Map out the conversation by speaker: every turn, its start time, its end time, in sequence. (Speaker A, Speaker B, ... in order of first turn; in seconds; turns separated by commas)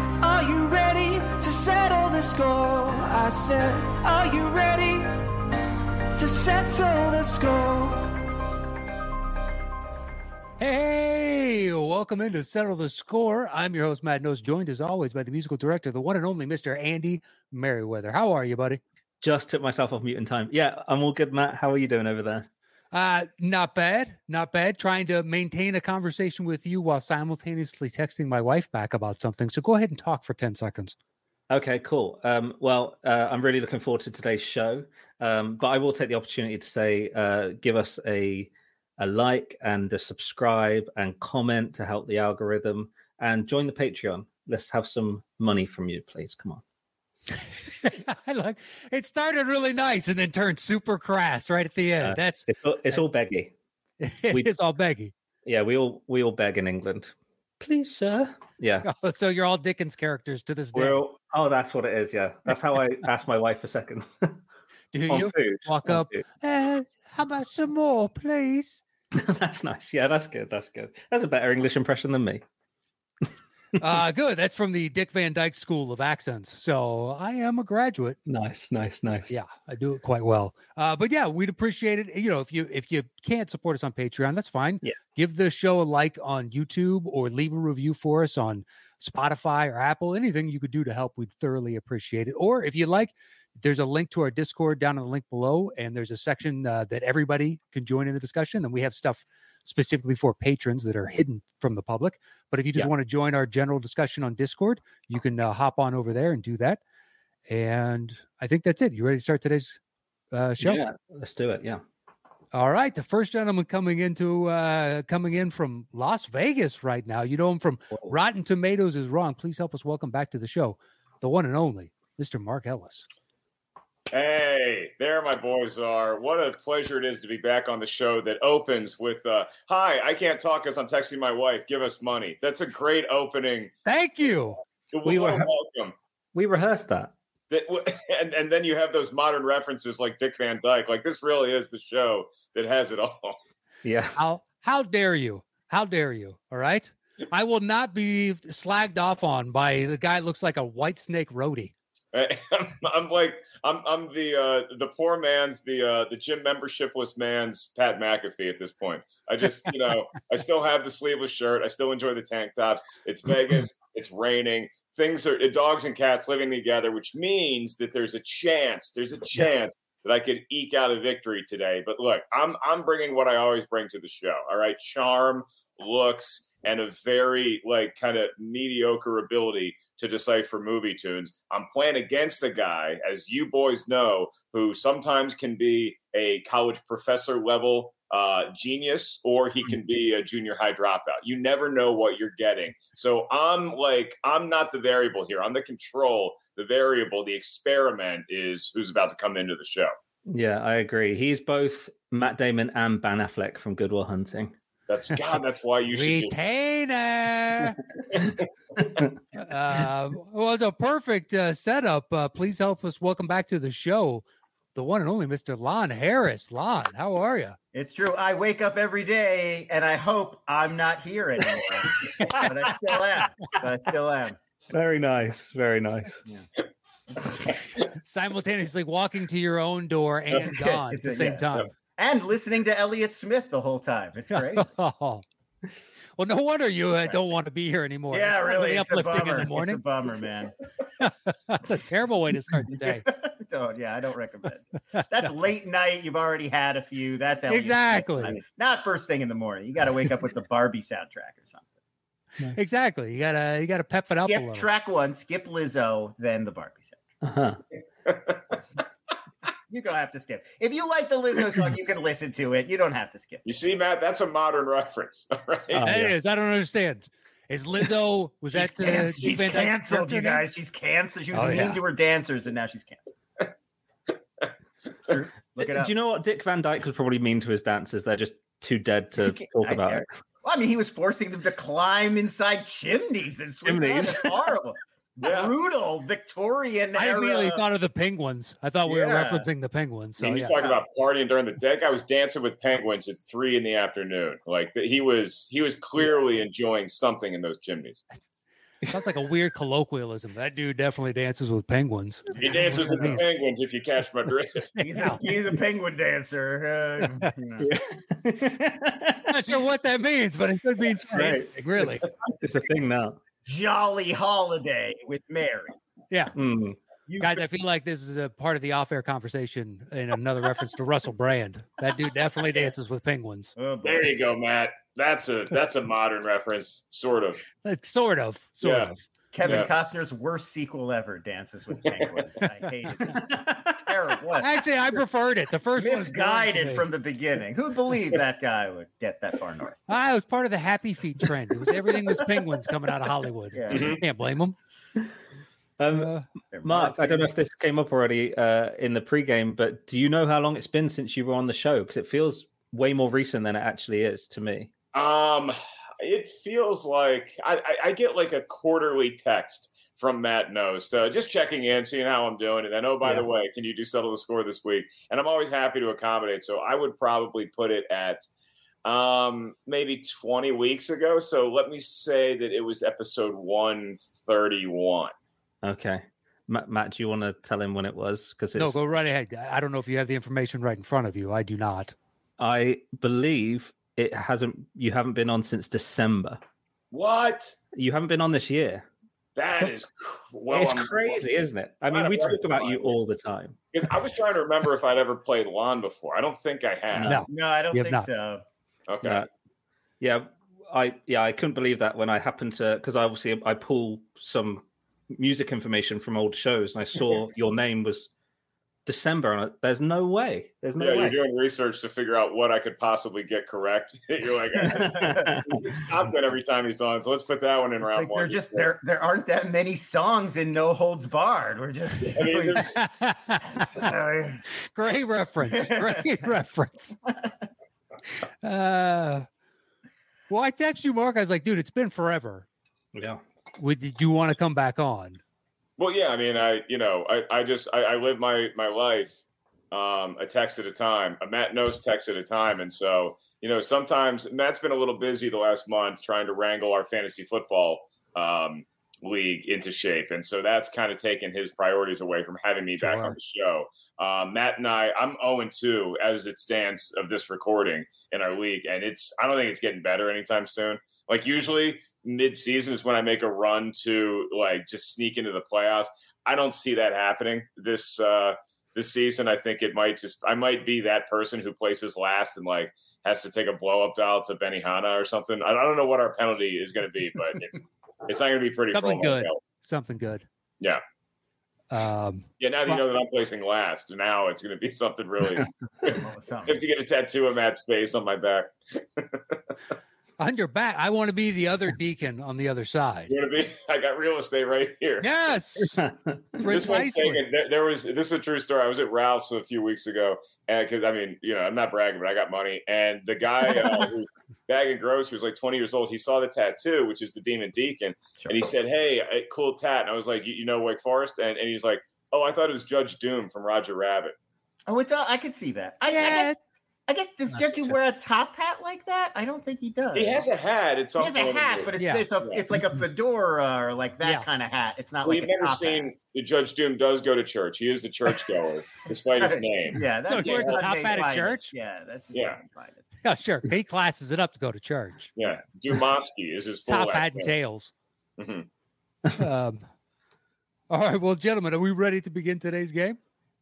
Speaker A: 0.2-5.1, Speaker A: 6.1-8.2, Speaker B: 10.6-18.8, Speaker C: 19.2-22.5, Speaker B: 22.9-30.9, Speaker C: 31.5-46.6, Speaker B: 47.8-53.0, Speaker C: 52.0-53.5, Speaker B: 54.0-55.1, Speaker C: 55.4-58.9, Speaker B: 58.8-61.0, Speaker C: 60.7-64.4, Speaker B: 64.9-68.8, Speaker C: 65.1-66.2, Speaker C: 69.1-72.4, Speaker B: 73.8-78.2, Speaker C: 78.3-79.3, Speaker B: 79.3-106.8, Speaker B: 107.5-109.8, Speaker B: 110.3-110.8, Speaker C: 110.6-111.8, Speaker B: 112.5-123.1, Speaker D: 124.1-133.7, Speaker B: 133.8-134.6, Speaker D: 134.9-135.9, Speaker C: 135.0-135.5, Speaker C: 136.3-137.1, Speaker D: 137.5-143.4, Speaker C: 143.8-144.2, Speaker B: 144.2-151.7, Speaker D: 152.1-199.9, Speaker C: 200.3-204.5, Speaker D: 204.9-206.3, Speaker B: 205.9-207.8, Speaker B: 209.3-214.2, Speaker B: 214.7-217.6, Speaker E: 217.7-224.4, Speaker C: 224.7-226.2, Speaker E: 227.1-227.4, Speaker B: 228.0-231.7, Speaker E: 230.3-231.4, Speaker E: 232.0-234.7, Speaker B: 234.3-235.2, Speaker B: 236.2-239.8, Speaker E: 238.1-240.5, Speaker B: 241.0-243.1, Speaker E: 242.8-251.7, Speaker B: 247.5-248.4, Speaker B: 252.5-254.7, Speaker E: 254.1-257.0, Speaker C: 257.2-257.6, Speaker D: 258.1-258.4, Speaker E: 259.7-263.4, Speaker D: 263.4-265.9, Speaker C: 265.7-266.1, Speaker B: 265.8-270.4, Speaker E: 268.5-273.0, Speaker B: 271.3-271.8, Speaker E: 275.0-275.9, Speaker C: 275.6-280.1, Speaker E: 279.2-287.6, Speaker C: 283.6-284.3, Speaker D: 285.2-285.5, Speaker B: 286.9-290.6, Speaker E: 288.8-289.5, Speaker D: 290.2-298.0, Speaker B: 298.9-303.2, Speaker D: 302.4-304.7, Speaker E: 302.8-303.1, Speaker B: 304.8-305.2, Speaker E: 304.8-307.7, Speaker C: 307.6-309.5, Speaker B: 309.2-312.0, Speaker C: 311.1-313.2, Speaker E: 313.4-315.8, Speaker C: 316.3-316.8, Speaker E: 317.1-317.4, Speaker B: 317.2-323.5, Speaker E: 323.6-324.1, Speaker D: 323.8-327.4, Speaker B: 327.6-329.0, Speaker D: 328.6-328.9, Speaker E: 329.3-334.7, Speaker D: 329.4-329.7, Speaker C: 333.0-333.6, Speaker B: 334.4-336.9, Speaker E: 335.8-339.8, Speaker B: 339.9-344.5, Speaker E: 343.5-344.0, Speaker D: 343.7-344.0, Speaker C: 345.8-354.7, Speaker B: 345.9-346.3, Speaker E: 346.5-347.3, Speaker D: 354.9-368.3, Speaker D: 368.8-375.1, Speaker C: 375.6-378.8, Speaker B: 378.6-381.9, Speaker C: 382.4-386.4, Speaker D: 386.9-387.6, Speaker C: 387.7-388.9, Speaker D: 389.4-391.2, Speaker C: 390.5-393.6, Speaker D: 391.9-393.0, Speaker D: 393.7-397.2, Speaker C: 396.9-397.2, Speaker B: 397.1-398.1, Speaker E: 397.3-398.4, Speaker D: 398.9-399.2, Speaker C: 399.0-399.3, Speaker C: 400.0-408.1, Speaker C: 408.9-411.2, Speaker D: 410.8-418.7, Speaker E: 414.6-415.4, Speaker C: 414.7-415.6, Speaker E: 417.8-422.6, Speaker D: 422.0-422.7, Speaker B: 422.7-423.7, Speaker E: 423.4-424.4, Speaker B: 424.7-427.0, Speaker E: 425.4-426.1, Speaker E: 427.1-427.3, Speaker B: 428.4-429.3, Speaker B: 430.3-432.5, Speaker C: 432.9-433.2, Speaker B: 433.6-435.2, Speaker D: 435.8-479.4, Speaker B: 452.8-453.1, Speaker B: 478.7-480.2, Speaker B: 481.7-482.8, Speaker D: 482.4-489.4, Speaker E: 485.9-486.6, Speaker B: 490.2-493.1, Speaker D: 493.1-495.3, Speaker B: 495.0-495.8, Speaker C: 495.8-496.2, Speaker B: 496.4-497.2, Speaker D: 496.4-514.1, Speaker E: 508.2-508.5, Speaker E: 514.7-520.2, Speaker B: 515.9-516.4, Speaker D: 519.9-521.7, Speaker E: 521.0-525.9, Speaker B: 521.8-522.1, Speaker D: 525.0-530.6, Speaker E: 529.2-532.9, Speaker B: 530.1-531.5, Speaker D: 532.1-532.4, Speaker B: 533.0-535.1, Speaker D: 535.2-537.3, Speaker B: 536.7-537.7, Speaker D: 538.2-538.5, Speaker B: 539.2-539.6, Speaker B: 540.7-543.0